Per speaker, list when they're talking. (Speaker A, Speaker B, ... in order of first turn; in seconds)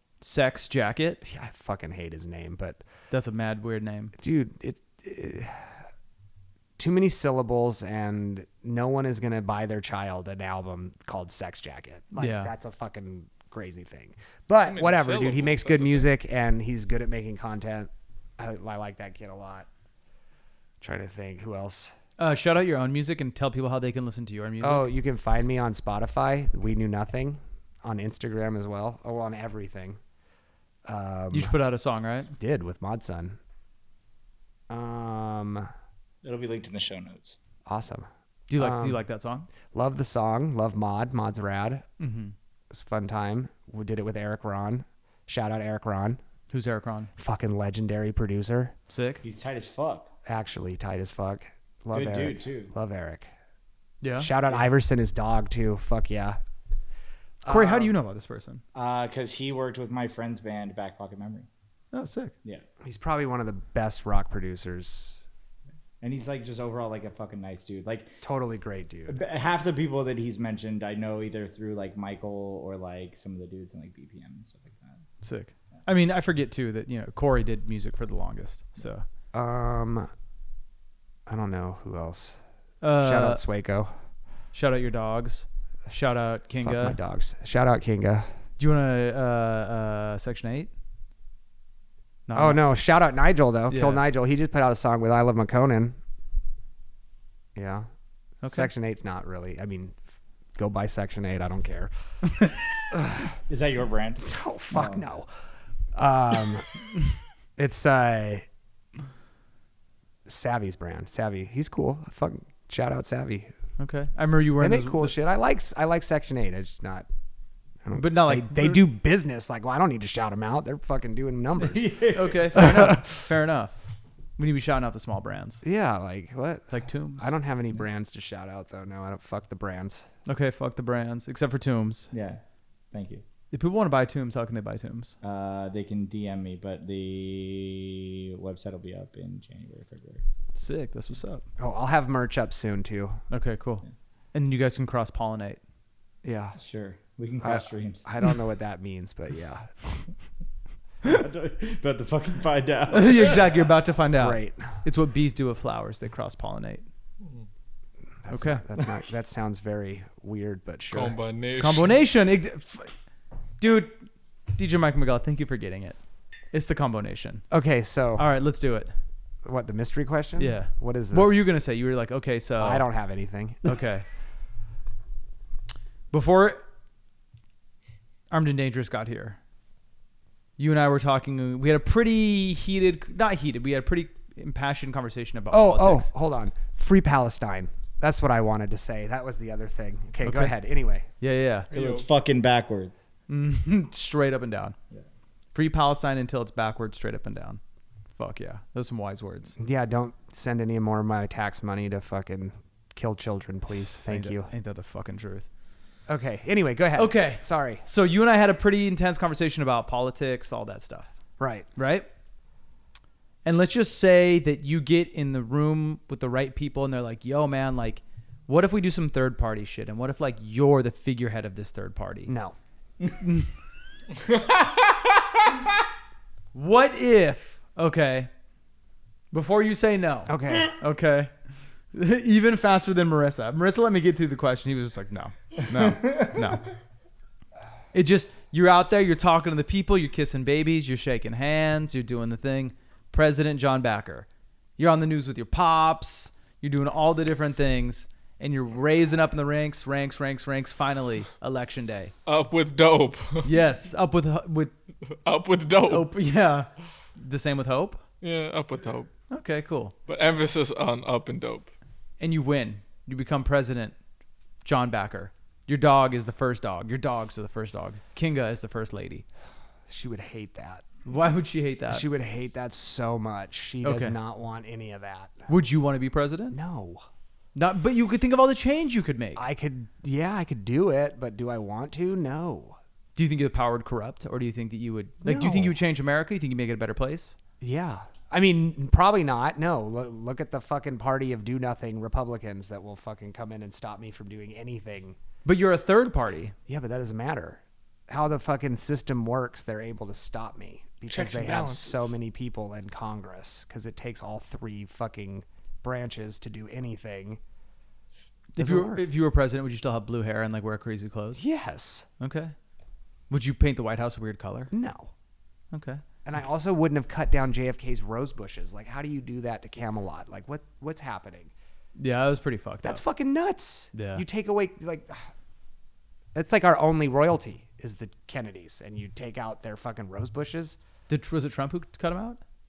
Speaker A: 0.2-1.2, 3.1-4.1, 12.2-12.5, 22.2-24.9, 31.3-32.3, 38.5-39.5, 42.0-42.3, 46.5-47.1, 48.9-49.2, 54.0-54.3, 57.5-58.6, 61.9-62.3, 75.2-79.1, 82.8-83.4, 84.5-87.0, 88.6-90.7, 92.3-92.6, 93.7-94.0, 98.4-98.7, 113.8-115.1, 118.0-118.8, 122.1-123.8, 124.4-125.6, 126.7-127.4, 130.3-132.1, 133.5-135.2, 140.6-141.4, 143.3-145.6, 152.9-156.8, 158.3-158.6, 161.6-162.9, 163.6-164.0, 164.6-166.0, 166.5-167.5, 168.2-168.9, 170.4-172.8, 173.7-174.1, 176.1-176.6, 178.3-179.4, 180.6-186.1, 190.2-190.6, 191.2-191.7, 193.3-194.8, 195.5-197.6, 198.2-199.6, 204.1-205.5, 207.0-211.1, 211.8-212.1, 213.4-222.3, 223.1-223.5, 226.5-228.3, 229.3-231.3, 231.9-236.7, 237.9-244.3, 244.8-252.1, 253.4-254.7, 255.8-258.0, 259.3-259.9, 262.2-263.9, 264.6-269.2, 271.1-272.1, 273.8-274.2, 275.5-276.6, 277.6-279.4, 283.2-287.4, 295.4-296.6, 308.6-311.4, 312.2-312.5, 313.3-314.7, 315.7-316.0, 322.0-323.0, 323.9-324.2, 331.1-332.4
Speaker B: 1.2-2.8, 4.2-5.8, 6.8-19.7, 20.8-21.9, 24.6-30.0, 30.9-31.5, 32.4-33.4, 34.7-35.7, 37.7-39.0, 39.7-41.8, 42.7-46.2, 47.2-48.7, 50.3-53.3, 54.2-56.4, 57.4-57.9, 62.8-65.2, 68.2-69.2, 79.3-80.1, 81.3-82.4, 83.0-84.0, 86.6-88.3, 92.3-96.0, 97.6-97.9, 98.5-100.0, 100.6-101.9, 102.9-103.3, 104.2-105.3, 105.9-106.7, 107.6-108.5, 110.3-113.5, 114.6-117.1, 117.8-123.2, 125.6-130.1, 141.6-143.2, 146.2-146.6, 147.4-150.0, 154.2-154.8, 158.2-161.2, 167.5-168.3, 169.4-171.4, 172.6-173.8, 185.5-191.1, 199.6-204.5, 206.1-207.8, 211.4-211.7, 222.3-222.6, 230.3-230.8, 269.9-270.9, 271.9-275.5, 276.5-277.1, 279.4-282.8, 285.2-285.8, 287.6-295.2, 296.7-307.4, 308.6-309.0, 311.4-312.1, 314.7-315.1, 316.2-321.5, 322.8-325.3, 326.4-330.8
Speaker C: 14.7-16.1, 157.2-157.5, 160.9-161.9, 191.7-192.1, 252.3-253.5, 255.2-256.1, 258.2-259.1, 260.1-261.7, 301.1-302.1
Speaker D: 36.2-37.4, 49.2-50.1, 51.9-52.7, 58.8-61.5, 66.0-68.2, 69.1-75.1, 103.5-105.0, 121.6-122.5, 132.1-132.4, 132.9-133.2, 135.2-140.2, 146.6-148.1, 151.0-153.7, 191.7-193.0